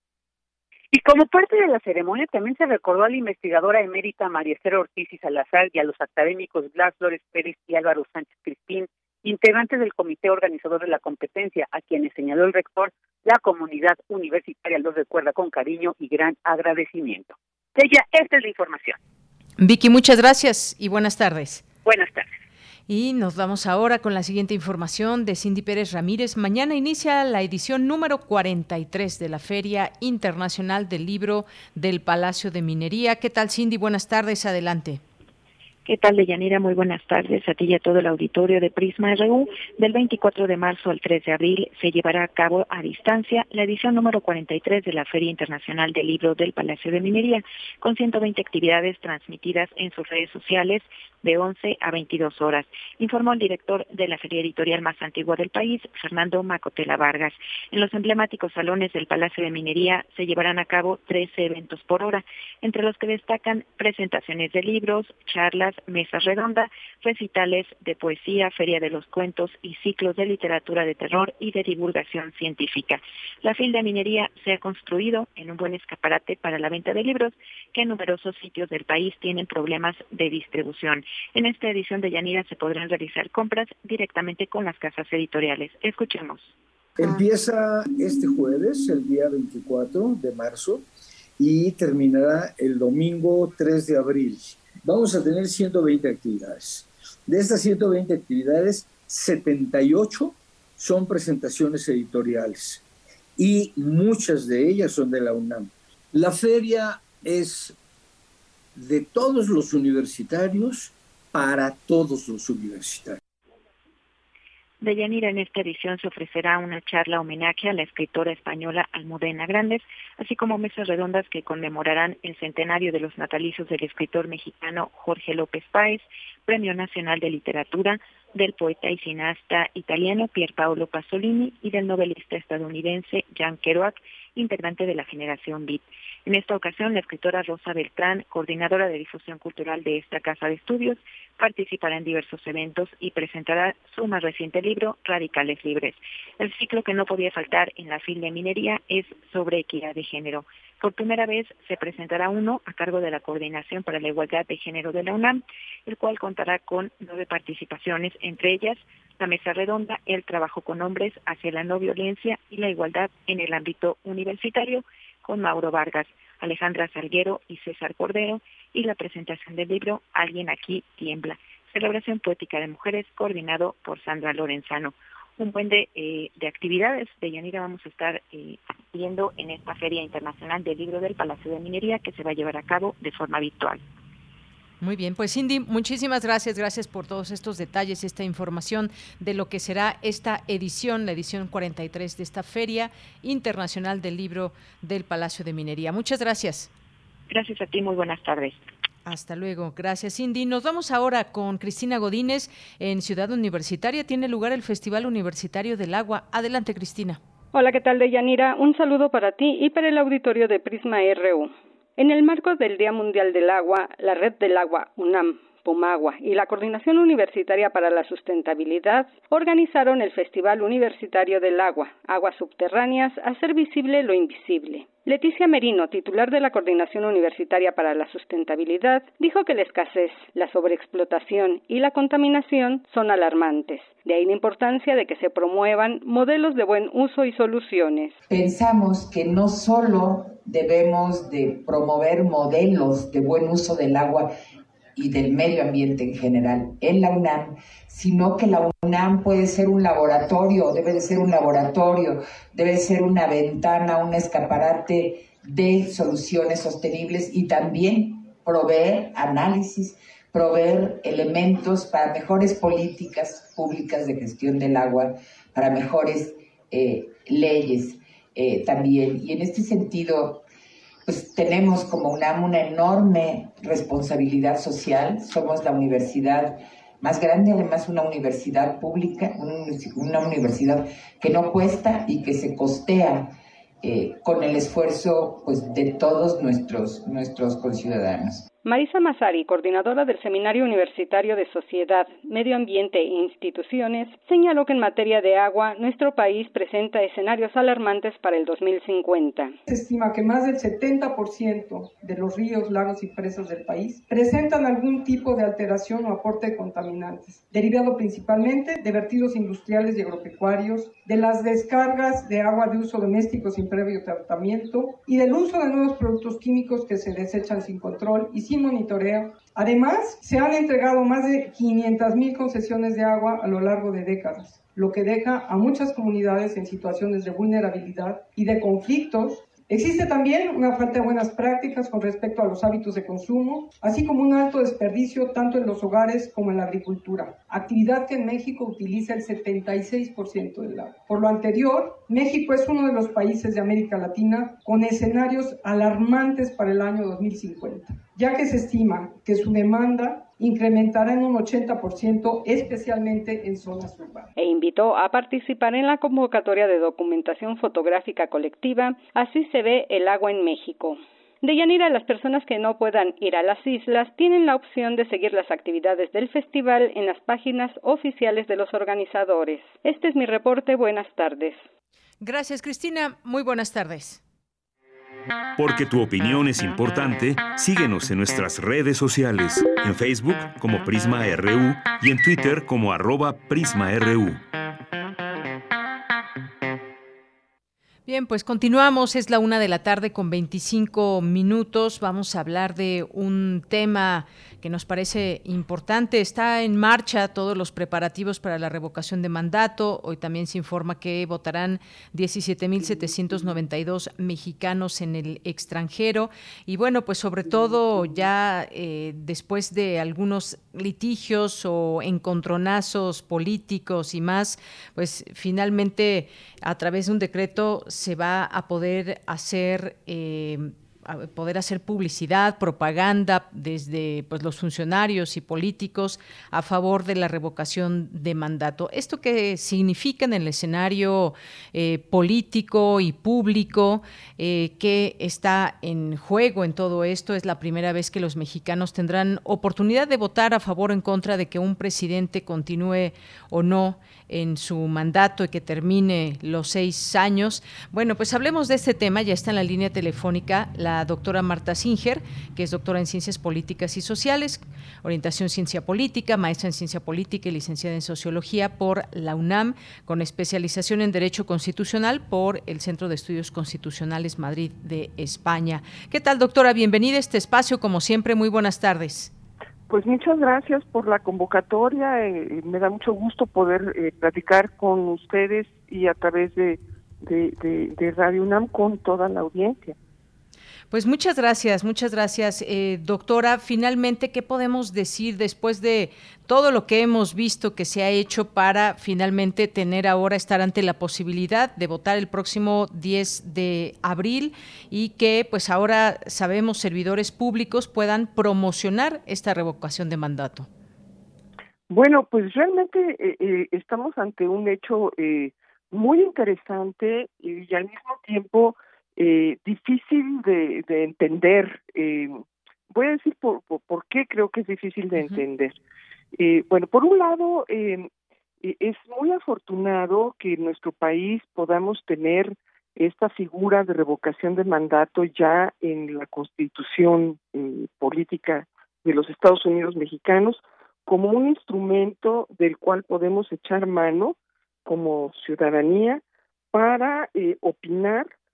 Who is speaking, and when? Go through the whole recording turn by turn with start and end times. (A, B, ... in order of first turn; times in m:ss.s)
0:00.9-0:19.0 A
0:19.6-0:21.6 B
0:21.8-0:22.3 A
0:22.9-0:35.0 B
0:35.8-1:26.6 C
1:27.0-1:30.9 D
1:31.4-1:42.8 D
1:43.4-1:47.8 D
1:48.7-1:53.2 D
1:54.8-3:03.8 C
3:04.8-3:16.7 B
3:17.3-3:18.6 C
3:19.0-3:27.2 B
3:27.5-3:58.2 E
3:58.3-4:04.3 F
4:05.0-4:30.4 F
4:31.0-4:43.3 F
4:43.8-4:48.4 F
4:48.6-4:59.5 E
4:59.7-5:54.3 G
5:54.4-6:11.7 E
6:12.2-6:14.2 B
6:15.6-6:24.4 H
6:28.1-7:49.3 B
7:49.9-7:59.9 I
8:00.9-8:20.7 B
8:21.9-8:32.4 I
8:32.9-8:35.8 I
8:36.4-8:38.1 I
8:38.6-8:56.2 I
8:56.7-8:58.3 I